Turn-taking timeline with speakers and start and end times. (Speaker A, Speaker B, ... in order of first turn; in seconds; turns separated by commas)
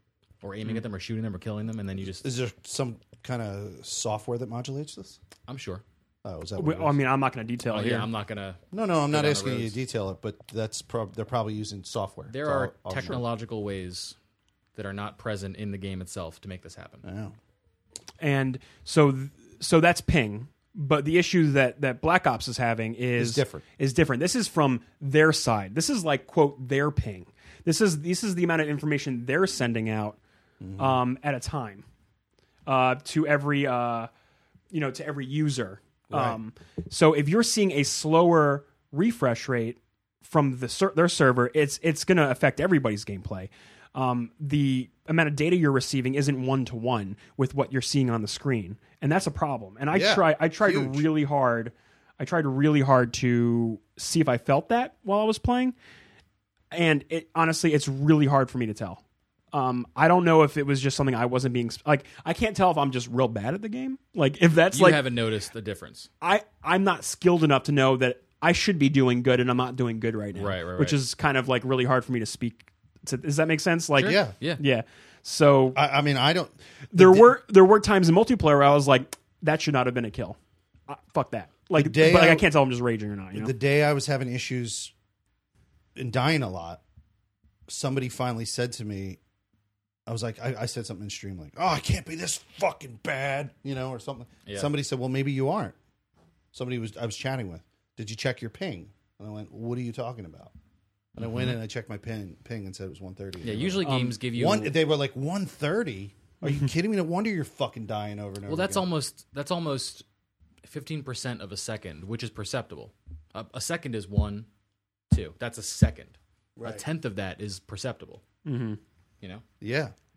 Speaker A: 0.4-2.3, Speaker B: 2.2-5.2, Speaker A: 5.5-5.8, Speaker B: 6.2-7.0, Speaker C: 6.6-8.1, Speaker A: 7.7-9.8, Speaker B: 8.7-13.2, Speaker A: 12.3-14.2, Speaker A: 14.7-17.1, Speaker B: 17.0-17.3, Speaker C: 18.2-30.2, Speaker B: 23.1-23.6, Speaker B: 30.6-31.0, Speaker C: 30.8-31.8, Speaker C: 32.6-34.1, Speaker C: 34.7-55.7, Speaker B: 36.1-36.4, Speaker B: 49.9-51.0, Speaker C: 56.7-59.0, Speaker C: 59.5-65.0, Speaker A: 64.7-66.1, Speaker C: 66.2-75.8, Speaker A: 70.3-71.0, Speaker A: 73.9-74.6, Speaker B: 74.0-74.3, Speaker B: 75.7-77.3, Speaker C: 76.9-80.4, Speaker C: 80.9-83.5, Speaker B: 81.7-82.5, Speaker B: 83.3-84.9, Speaker B: 86.0-86.8, Speaker B: 87.7-89.2, Speaker B: 90.1-95.8, Speaker A: 94.5-94.7, Speaker B: 96.5-100.5, Speaker A: 101.2-101.5, Speaker B: 101.2-108.9, Speaker A: 103.4-104.8, Speaker C: 103.8-104.2, Speaker A: 108.5-110.0, Speaker A: 110.6-114.5, Speaker A: 115.1-118.2, Speaker B: 116.6-116.8, Speaker C: 118.4-118.8, Speaker B: 119.6-119.9